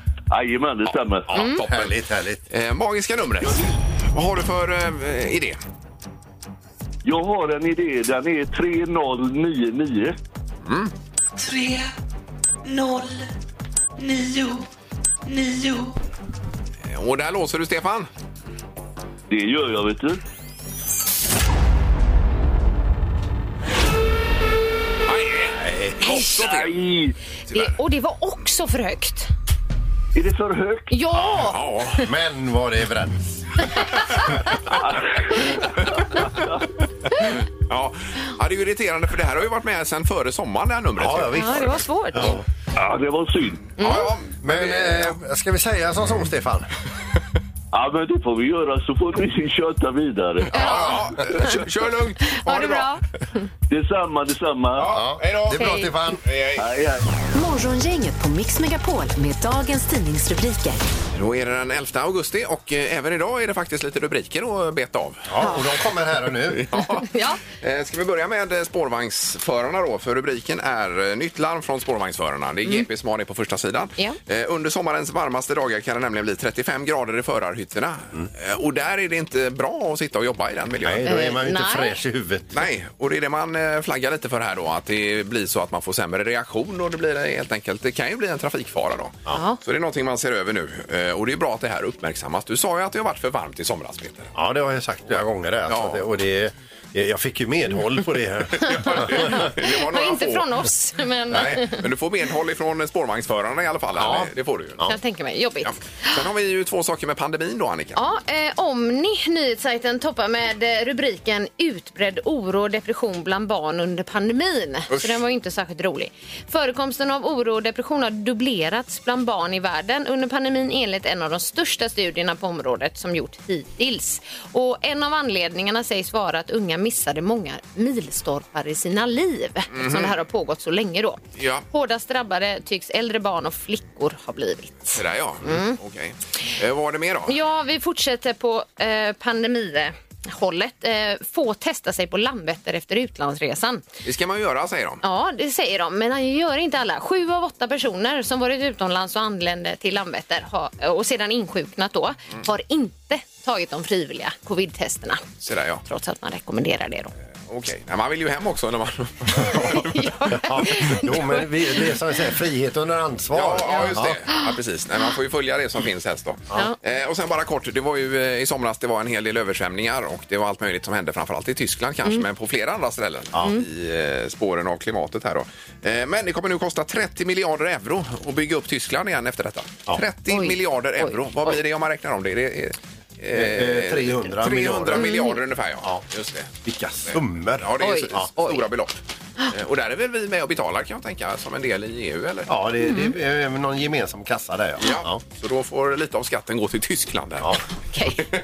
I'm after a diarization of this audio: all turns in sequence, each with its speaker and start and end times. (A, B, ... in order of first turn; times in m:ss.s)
0:00.3-0:01.4 A
0:01.3-0:02.0 B
0:01.3-0:01.6 C
0:01.4-0:02.4 D
0:02.5-0:05.6 B
0:03.4-0:03.7 A
0:07.0-0:10.2 A
0:10.7-0:10.9 B
0:11.4-0:11.9 E
0:12.6-0:13.3 E
0:14.0-0:14.7 E
0:15.3-0:16.0 E
0:16.9-0:18.1 B
0:19.3-0:20.2 A
0:25.1-0:26.8 B
0:25.6-0:26.0 D
0:26.0-0:26.5 C
0:26.3-0:27.2 A
0:27.5-0:29.3 C
0:30.2-0:30.9 A
0:30.9-0:31.6 C
0:31.2-0:32.1 B
0:32.0-0:33.8 D
0:34.8-0:35.6 A
0:37.2-0:42.4 B
0:41.0-0:42.4 D
0:41.3-0:42.4 C
0:42.8-0:43.7 A
0:43.8-0:44.1 C
0:43.8-0:45.2 B
0:44.4-0:46.7 D
0:47.7-0:51.4 A
0:50.5-0:52.9 B
0:50.5-0:51.6 C
0:52.3-0:53.4 C
0:53.7-0:55.0 A
0:54.8-0:56.6 B
0:54.9-0:56.2 D
0:55.6-0:55.9 C
0:56.6-0:57.1 A
0:57.4-1:00.8 F
1:01.1-1:05.6 B
1:05.3-1:06.7 D
1:05.4-1:05.7 C
1:06.5-1:21.1 B
1:06.8-1:07.4 C
1:20.8-1:22.5 D
1:21.0-1:22.0 C
1:22.5-1:34.3 B
1:29.3-1:29.6 C
1:34.4-1:39.5 D
1:35.7-1:36.0 B
1:38.6-1:40.5 B
1:38.6-1:41.8 C
1:41.4-1:44.8 B
1:44.0-1:45.0 D
1:44.8-1:46.2 C
1:45.6-1:48.0 B
1:48.0-2:15.8 C
1:54.9-1:55.2 B
2:09.7-2:10.2 B
2:11.4-2:11.6 B
2:14.9-2:17.3 B
2:17.3-2:23.8 C
2:24.0-2:25.0 B
2:25.0-2:35.3 C
2:35.4-2:35.8 B
2:35.8-2:37.1 C
2:37.5-2:40.1 B
2:39.5-2:41.9 C
2:40.3-2:44.2 D
2:43.3-3:09.0 B
2:43.7-2:44.4 C
3:00.3-3:01.5 C
3:03.3-3:05.2 D
3:05.0-3:05.4 C
3:06.6-3:08.3 D
3:07.8-3:08.6 C
3:09.5-3:12.5 B
3:12.5-3:15.2 D
3:12.8-3:13.1 C
3:14.8-3:17.6 B
3:17.9-3:18.3 C